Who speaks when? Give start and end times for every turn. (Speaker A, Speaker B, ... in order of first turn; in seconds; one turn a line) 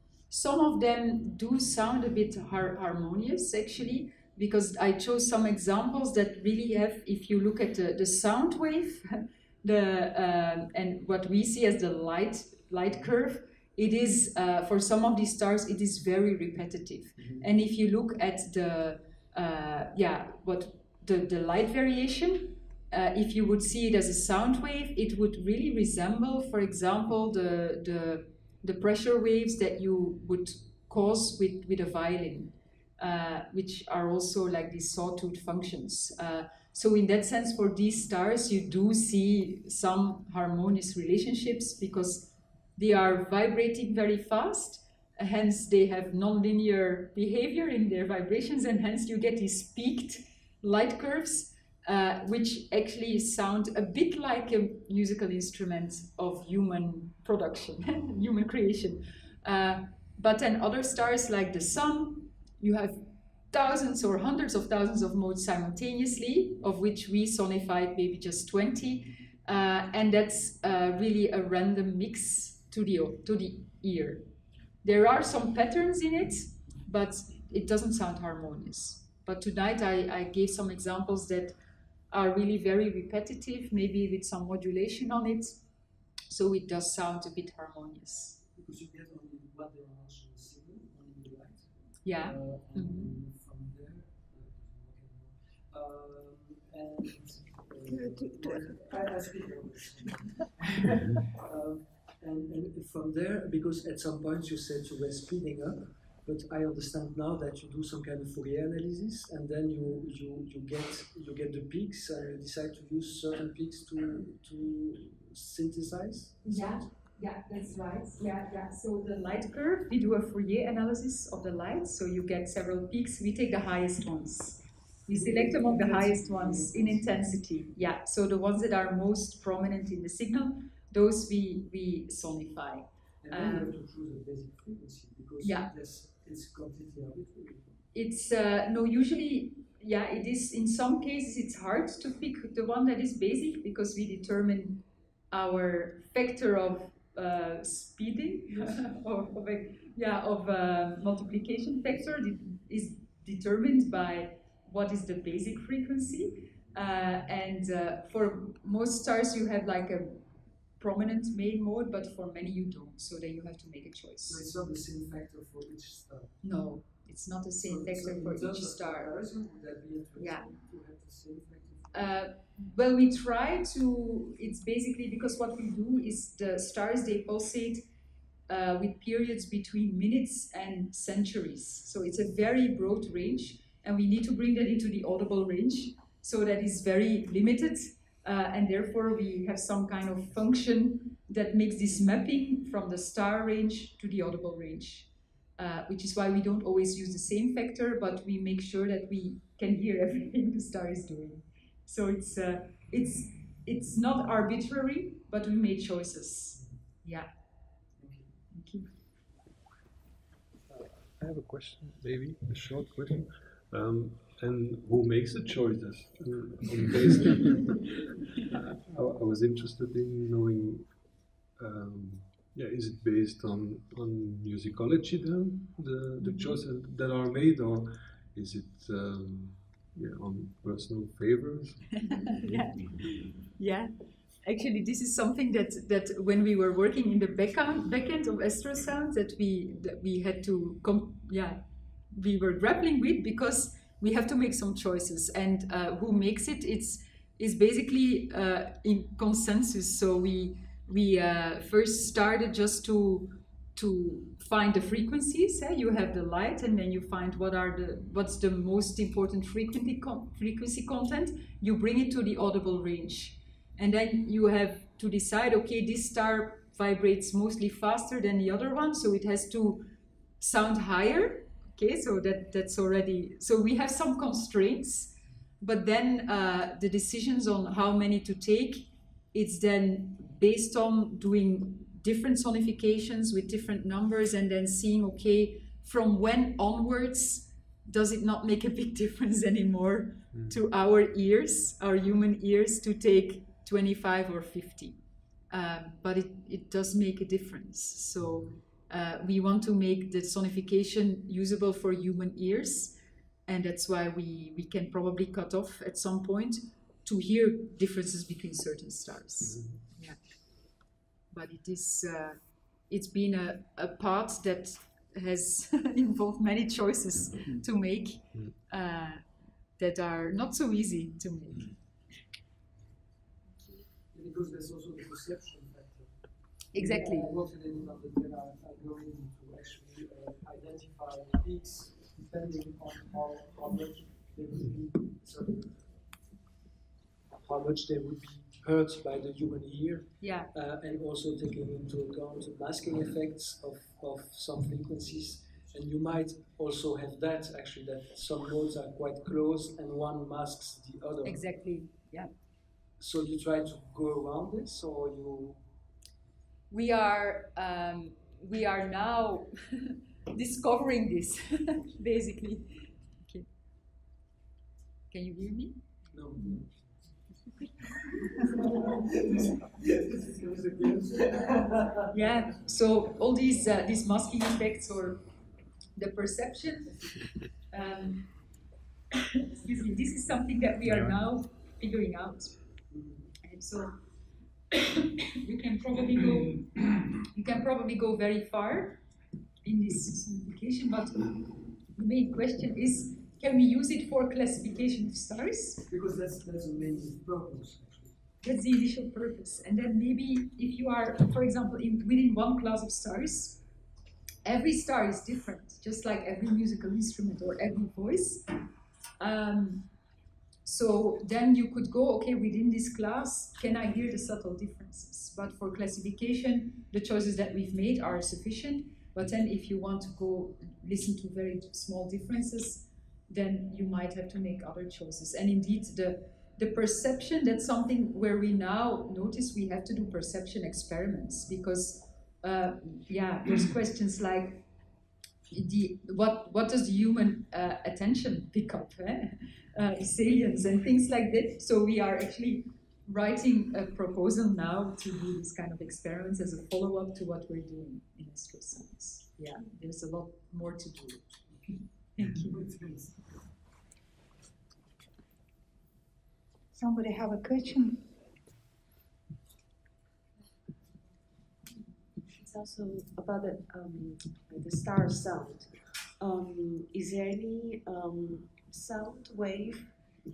Speaker A: 0.3-74.3
Speaker B: 17.2-17.5
Speaker A: 74.8-81.5
Speaker A: 82.1-85.6
Speaker A: 86.3-88.4
Speaker B: 88.4-116.8
Speaker A: 92.0-93.1
Speaker C: 97.9-99.1
Speaker A: 116.4-133.8
Speaker B: 125.1-127.4
Speaker B: 133.2-137.8
Speaker A: 135.4-135.7
Speaker A: 137.9-164.4
Speaker B: 164.2-166.4
Speaker A: 166.4-169.1
Speaker B: 167.6-172.2
Speaker A: 170.2-170.5
Speaker A: 171.9-177.9
Speaker A: 178.5-207.3
Speaker B: 208.0-208.3
Speaker A: 208.5-208.9
Speaker D: 210.7-217.8
Speaker D: 218.5-220.9
Speaker D: 221.6-232.6
Speaker A: 226.2-226.6
Speaker A: 232.0-233.9
Speaker A: 234.4-269.9
Speaker A: 270.4-310.2
Speaker D: 309.4-309.8
Speaker A: 311.3-319.2
Speaker A: 319.8-321.7
Speaker B: 324.1-335.9
Speaker A: 326.7-327.3
Speaker B: 337.4-351.5
Speaker A: 340.2-340.5
Speaker A: 351.2-352.3
Speaker B: 353.0-355.6
Speaker A: 356.7-363.5
Speaker A: 365.1-365.8
Speaker B: 366.1-366.9
Speaker B: 368.5-372.1
Speaker A: 372.1-375.2
Speaker A: 375.9-377.1
Speaker A: 377.7-378.3
Speaker A: 379.3-382.6
Speaker B: 382.9-383.2
Speaker A: 383.4-384.0
Speaker A: 384.7-389.0
Speaker A: 389.6-395.8
Speaker B: 395.8-398.2
Speaker A: 398.4-403.6
Speaker A: 404.4-408.5
Speaker A: 409.2-409.9
Speaker A: 410.6-434.6
Speaker A: 435.5-451.3
Speaker A: 452.2-452.6
Speaker B: 452.4-453.1
Speaker C: 456.7-458.0
Speaker E: 462.3-470.0